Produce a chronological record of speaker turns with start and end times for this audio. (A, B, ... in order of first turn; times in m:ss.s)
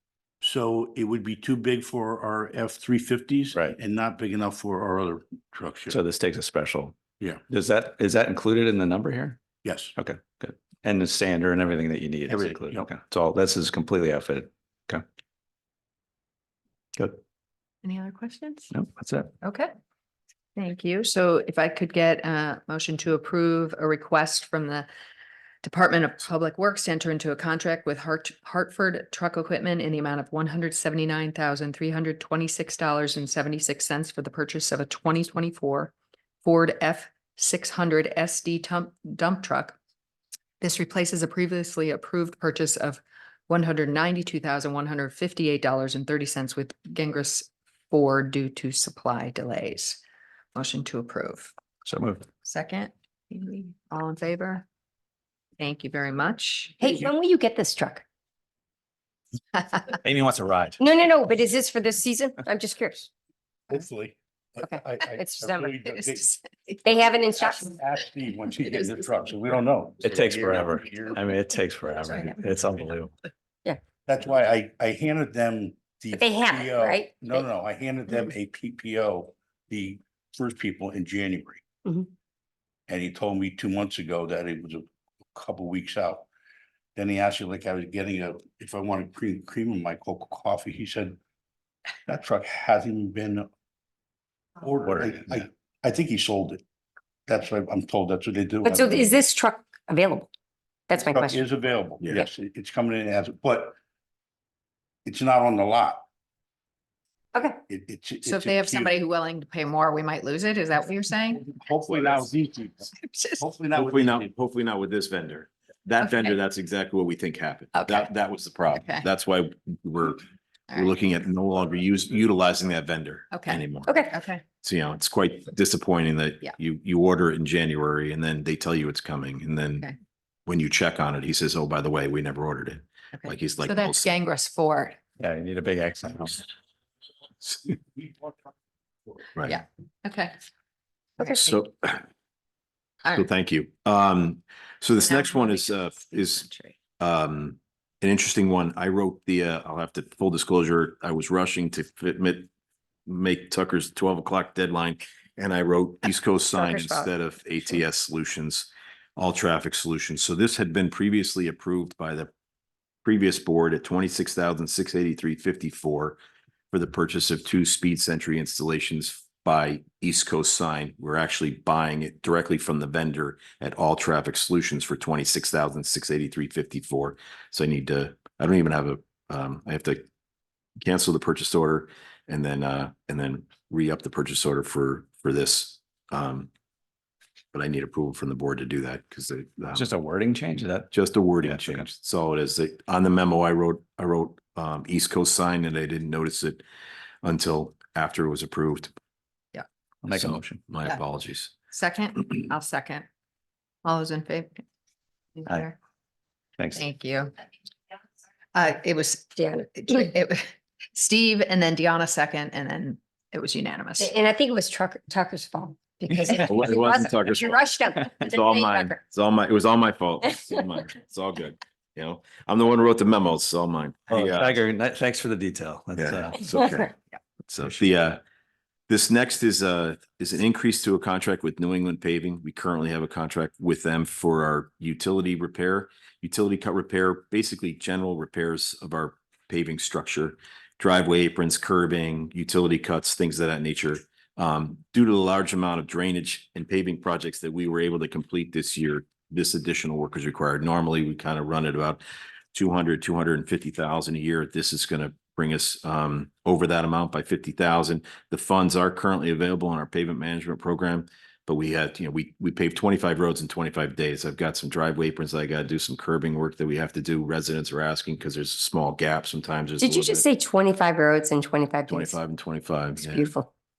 0:00.4-0:06.0 A
0:05.9-0:07.0 B
0:07.5-0:09.4 B
0:09.6-0:09.9 A
0:10.0-0:15.0 B
0:12.3-0:12.9 A
0:17.8-0:18.7 C
0:18.7-0:19.3 B
0:19.4-0:19.7 C
0:20.6-0:24.9 C
0:25.6-0:35.9 C
0:36.4-0:39.8 C
0:40.6-0:50.0 C
0:50.5-0:51.5 C
0:51.8-0:52.3 B
0:52.4-0:54.6 C
0:55.6-0:56.9 C
0:56.8-0:58.0 D
1:00.0-1:00.9 B
1:00.8-1:03.1 D
1:03.7-1:06.4 A
1:06.2-1:06.9 C
1:06.8-1:07.4 D
1:07.3-1:11.2 A
1:10.0-1:13.1 B
1:14.1-1:21.6 A
1:16.1-1:17.1 D
1:22.9-1:26.2 A
1:27.0-1:31.2 A
1:32.1-1:33.5 A
1:34.6-1:36.6 A
1:37.3-1:39.2 A
1:38.6-1:40.3 D
1:40.9-1:43.8 A
1:45.0-1:46.0 A
1:47.7-1:48.9 A
1:48.2-1:51.4 C
1:51.3-1:54.3 A
1:53.0-1:53.4 C
1:53.7-2:04.0 E
1:56.0-1:56.4 C
1:57.7-1:58.1 C
1:58.8-1:59.0 C
2:03.3-2:04.4 C
2:03.9-2:04.2 D
2:04.6-2:09.9 E
2:10.4-2:14.1 E
2:13.2-2:15.0 C
2:15.2-2:16.4 B
2:19.4-2:20.3 C
2:21.2-2:21.5 D
2:21.3-2:22.0 E
2:23.1-2:26.5 E
2:25.0-2:26.7 C
2:27.0-2:32.5 E
2:33.0-2:42.3 E
2:36.6-2:37.1 D
2:43.0-2:46.2 E
2:46.7-3:00.0 E
3:00.8-3:06.5 E
3:07.5-3:09.9 E
3:09.7-3:11.9 B
3:10.9-3:16.6 E
3:17.2-3:18.9 E
3:20.0-3:20.6 B
3:20.1-3:21.5 E
3:21.7-3:23.0 C
3:23.8-3:24.6 C
3:25.4-3:25.7 C
3:25.4-3:25.7 B
3:26.6-3:26.9 B
3:26.8-3:27.3 C
3:28.5-3:34.2 C
3:29.4-3:30.1 D
3:34.0-3:39.0 D
3:36.1-3:36.8 B
3:36.4-3:44.5 E
3:44.1-3:46.7 B
3:46.0-3:46.9 E
3:47.5-3:48.2 E
3:48.9-4:12.0 E
4:12.5-4:30.2 E
4:29.8-4:32.2 D
4:31.9-4:33.3 E
4:33.0-4:33.5 D